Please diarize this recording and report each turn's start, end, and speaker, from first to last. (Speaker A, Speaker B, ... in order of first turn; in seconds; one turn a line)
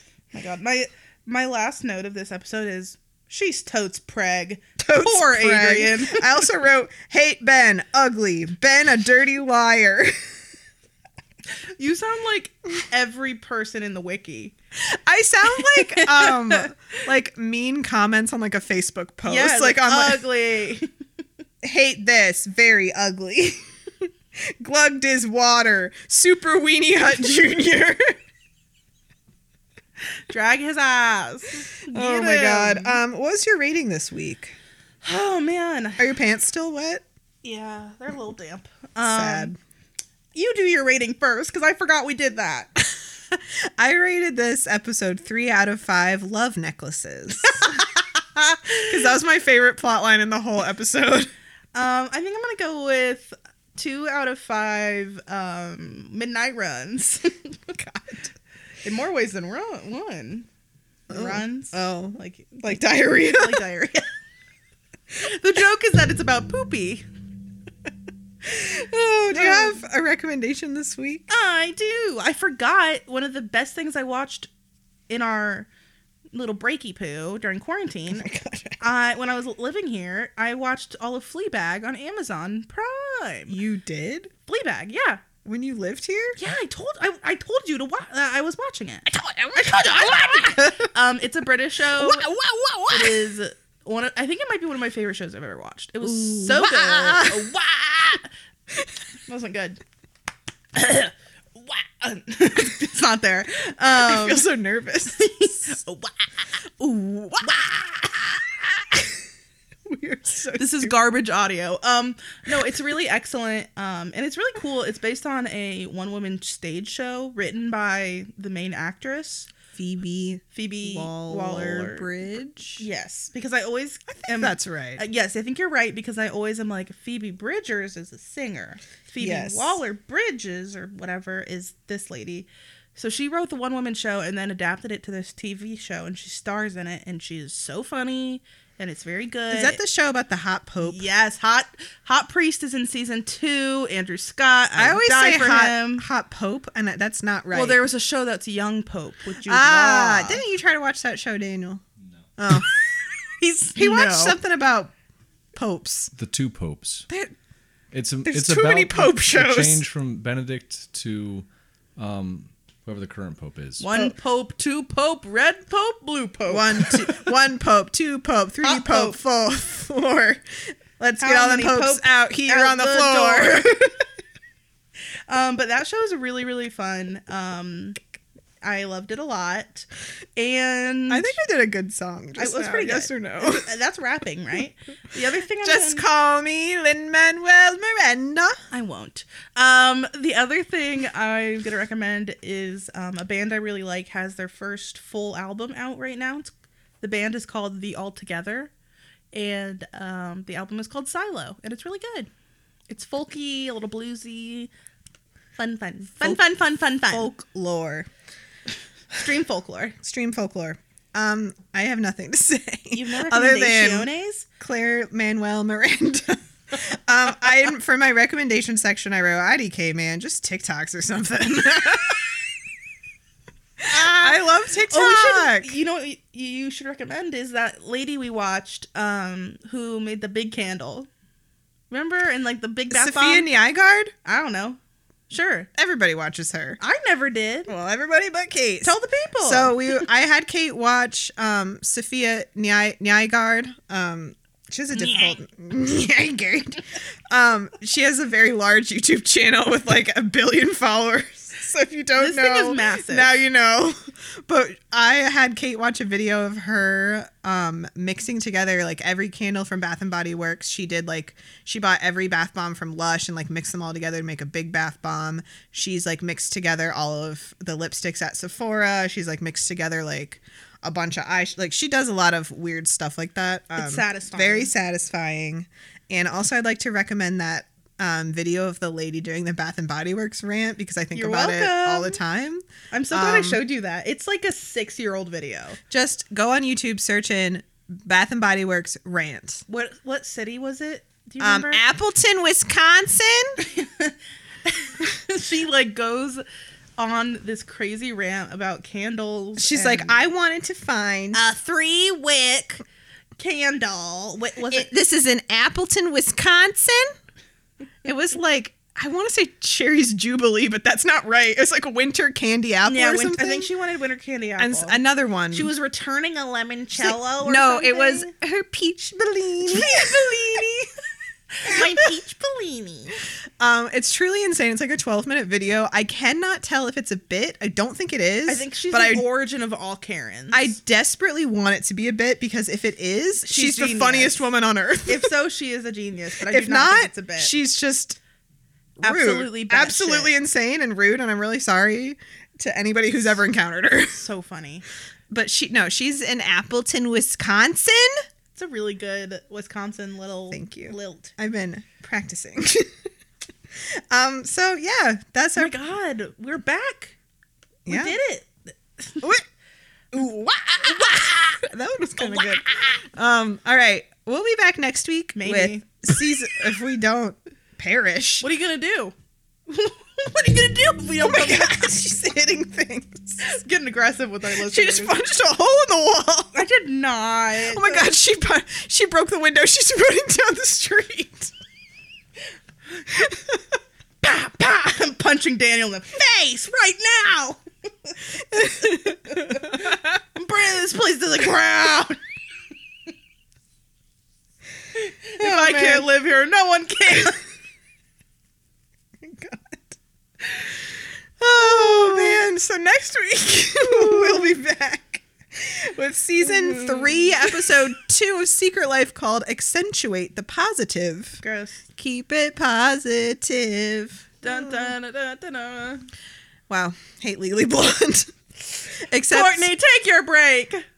Speaker A: 0.3-6.5
Speaker B: 4.8-10.3
Speaker A: 11.8-14.6
Speaker B: 14.9-20.2
Speaker A: 15.6-16.7
Speaker A: 19.3-20.9
Speaker B: 21.6-28.2
Speaker A: 30.3-33.0
Speaker B: 31.9-34.6
Speaker A: 35.0-36.0
Speaker B: 36.0-37.0
Speaker A: 37.4-39.5
Speaker B: 39.0-39.6
Speaker A: 40.3-42.8
Speaker B: 42.8-47.8
Speaker B: 48.8-51.3
Speaker A: 51.7-57.6
Speaker B: 57.7-58.3
Speaker A: 58.8-60.5
Speaker A: 61.1-62.6
Speaker B: 61.1-63.6
Speaker A: 63.3-64.1
Speaker A: 65.2-67.1
Speaker B: 68.4-71.3
Speaker A: 69.3-69.8
Speaker A: 71.3-74.5
Speaker A: 75.1-75.7
Speaker A: 76.3-78.3
Speaker B: 78.1-78.8
Speaker A: 78.8-83.6
Speaker B: 83.5-84.3
Speaker A: 84.5-85.2
Speaker B: 85.5-86.4
Speaker A: 86.4-92.3
Speaker B: 89.1-90.9
Speaker B: 92.0-93.3
Speaker A: 92.9-98.3
Speaker B: 96.0-97.6
Speaker A: 99.3-99.8
Speaker A: 100.8-104.5
Speaker B: 104.0-105.7
Speaker A: 105.2-106.1
Speaker B: 106.8-109.1
Speaker A: 107.4-107.7
Speaker B: 109.8-110.9
Speaker A: 110.6-119.5
Speaker B: 119.7-122.9
Speaker A: 120.5-122.1
Speaker A: 122.8-139.8
Speaker B: 124.2-125.0
Speaker B: 129.2-129.8
Speaker B: 139.5-141.0
Speaker A: 140.8-146.1
Speaker B: 144.8-147.8
Speaker A: 147.5-150.4
Speaker B: 149.4-151.8
Speaker B: 152.4-152.7
Speaker A: 152.5-154.4
Speaker B: 153.8-154.9
Speaker B: 155.5-156.1
Speaker C: 156.1-157.1
Speaker C: 157.9-163.9
Speaker B: 158.2-159.8
Speaker A: 163.8-167.3
Speaker B: 166.5-173.9
Speaker A: 168.6-169.2
Speaker A: 171.2-174.0
Speaker A: 175.3-178.0
Speaker A: 178.6-181.4
Speaker B: 181.1-183.7
Speaker A: 182.4-186.1
Speaker B: 185.6-188.6
Speaker A: 188.7-198.7
Speaker A: 199.3-202.3
Speaker A: 202.9-204.7
Speaker A: 205.6-207.3
Speaker B: 207.1-208.1
Speaker A: 209.1-209.9
Speaker B: 210.0-222.4
Speaker A: 212.9-214.5
Speaker B: 223.8-225.8
Speaker A: 223.9-231.1
Speaker A: 231.9-233.5
Speaker B: 232.9-234.1
Speaker A: 234.2-234.8
Speaker A: 235.3-235.7
Speaker B: 235.8-236.8
Speaker A: 236.8-237.7
Speaker B: 237.7-283.6
Speaker A: 238.8-240.0
Speaker A: 244.9-245.4
Speaker A: 252.2-253.4
Speaker A: 273.8-274.7
Speaker A: 281.1-282.2
Speaker A: 282.9-285.8
Speaker B: 285.9-289.6
Speaker A: 289.7-291.8
Speaker B: 291.4-293.6
Speaker A: 293.6-294.1
Speaker A: 294.7-296.4
Speaker A: 297.0-300.2
Speaker B: 299.6-301.4
Speaker A: 301.3-302.8
Speaker A: 303.4-304.9
Speaker B: 304.7-307.1
Speaker B: 308.0-313.7
Speaker A: 312.9-315.0
Speaker B: 314.6-315.7
Speaker A: 315.5-318.3
Speaker B: 317.0-320.7
Speaker A: 319.6-320.9
Speaker A: 321.5-323.2
Speaker B: 321.7-321.9
Speaker B: 323.6-329.2
Speaker A: 328.5-330.8
Speaker B: 330.5-335.3
Speaker A: 333.4-334.4
Speaker A: 335.1-337.5
Speaker B: 336.5-338.2
Speaker B: 339.0-344.2
Speaker A: 339.0-340.4
Speaker A: 344.1-344.8
Speaker B: 345.3-348.2
Speaker A: 348.6-351.3
Speaker B: 350.5-352.9
Speaker B: 353.8-355.7
Speaker A: 355.6-357.2
Speaker B: 357.9-358.2
Speaker A: 357.9-359.3
Speaker B: 360.1-368.5
Speaker A: 360.9-361.5
Speaker A: 362.2-363.0
Speaker A: 365.4-365.9
Speaker A: 368.4-369.1
Speaker A: 369.7-371.9
Speaker B: 371.2-373.4
Speaker A: 373.4-375.2
Speaker B: 374.6-376.6
Speaker A: 376.5-378.1
Speaker B: 377.7-381.5
Speaker B: 383.1-383.8
Speaker A: 384.2-392.2
Speaker B: 388.5-390.0
Speaker A: 394.9-397.4
Speaker B: 395.4-396.1
Speaker B: 399.2-400.0
Speaker B: 401.4-411.4
Speaker A: 401.6-402.4
Speaker A: 403.8-404.6
Speaker A: 406.6-407.5
Speaker A: 411.4-411.8
Speaker B: 411.9-414.9
Speaker A: 414.4-416.1
Speaker B: 416.7-418.3
Speaker B: 418.9-419.7
Speaker A: 419.3-420.8